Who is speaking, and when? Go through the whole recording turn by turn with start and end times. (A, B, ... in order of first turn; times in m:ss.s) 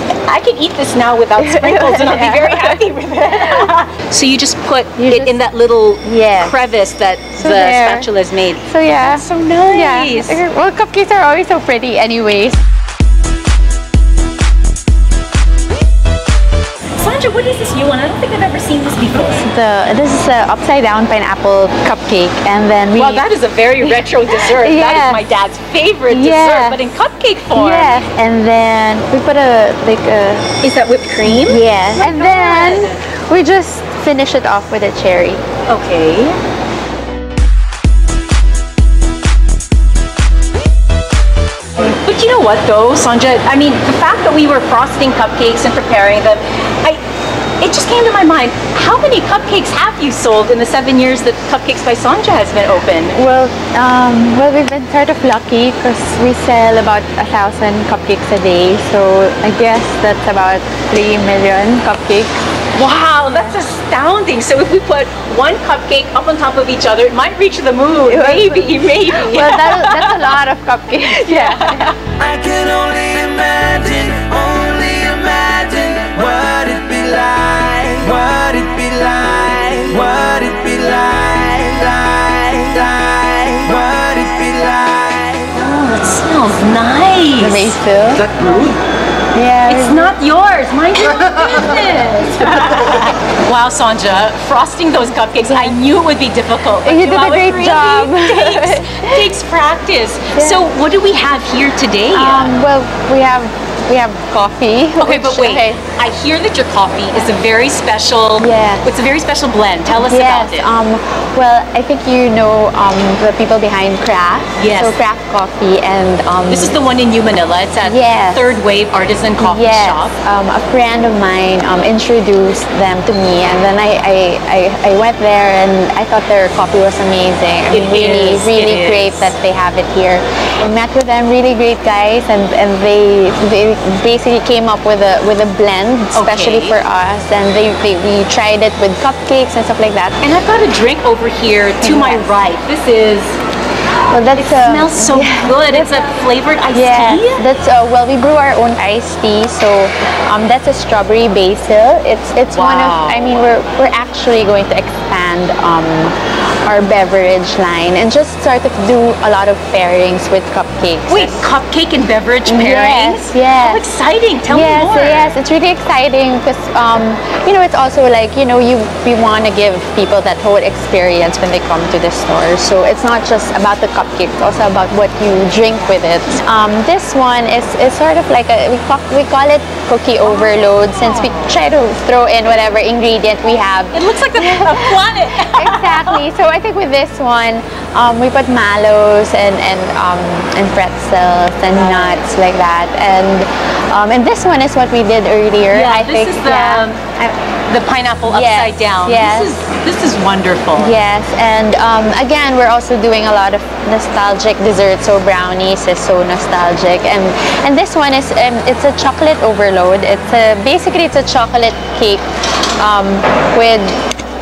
0:00.2-0:10.4 A
0:01.4-0:03.7 B
0:05.0-0:05.4 B
0:06.0-0:06.6 B
0:07.4-0:08.1 B
0:08.6-0:12.6 B
0:17.0-0:19.4 A
0:19.4-0:23.2 B
0:22.9-0:28.1 A
0:23.8-0:25.2 B
0:26.1-0:26.9 B
0:27.5-0:30.5 B
0:30.6-0:33.0 A
0:31.2-0:35.4 B
0:35.7-0:36.4 A
0:41.8-0:47.0 A
0:47.6-0:53.2 A
0:53.1-1:02.3 B
1:02.7-1:10.4 A
1:03.3-1:03.6 B
1:08.1-1:11.9 B
1:11.0-1:12.0 A
1:12.1-1:25.5 C
1:25.5-1:27.8 A
1:27.4-1:28.3 B
1:28.3-1:28.7 C
1:29.3-1:30.1 B
1:29.7-1:42.5 A
1:35.4-1:35.7 B
1:36.8-1:39.3 B
1:40.4-1:40.7 B
1:42.1-1:45.8 B
1:45.0-1:50.7 A
1:48.4-1:48.9 B
1:49.9-1:56.7 B
1:54.6-1:55.0 A
1:56.5-2:00.2 A
1:57.8-1:58.4 B
1:59.4-2:20.2 B
2:07.7-2:09.3 A
2:16.1-2:16.8 A
2:20.2-2:23.4 A
2:21.8-2:22.3 B
2:24.1-2:26.0 B
2:24.4-2:27.4 A
2:26.7-2:41.4 B
2:32.5-2:33.4 A
2:41.1-2:45.4 A
2:42.4-2:43.8 B
2:44.5-3:16.9 B
3:00.2-3:01.6 A
3:03.9-3:06.2 A
3:11.7-3:12.2 A
3:15.7-3:21.0 A
3:18.3-3:19.5 B
3:20.8-3:32.2 B
3:32.8-3:34.0 B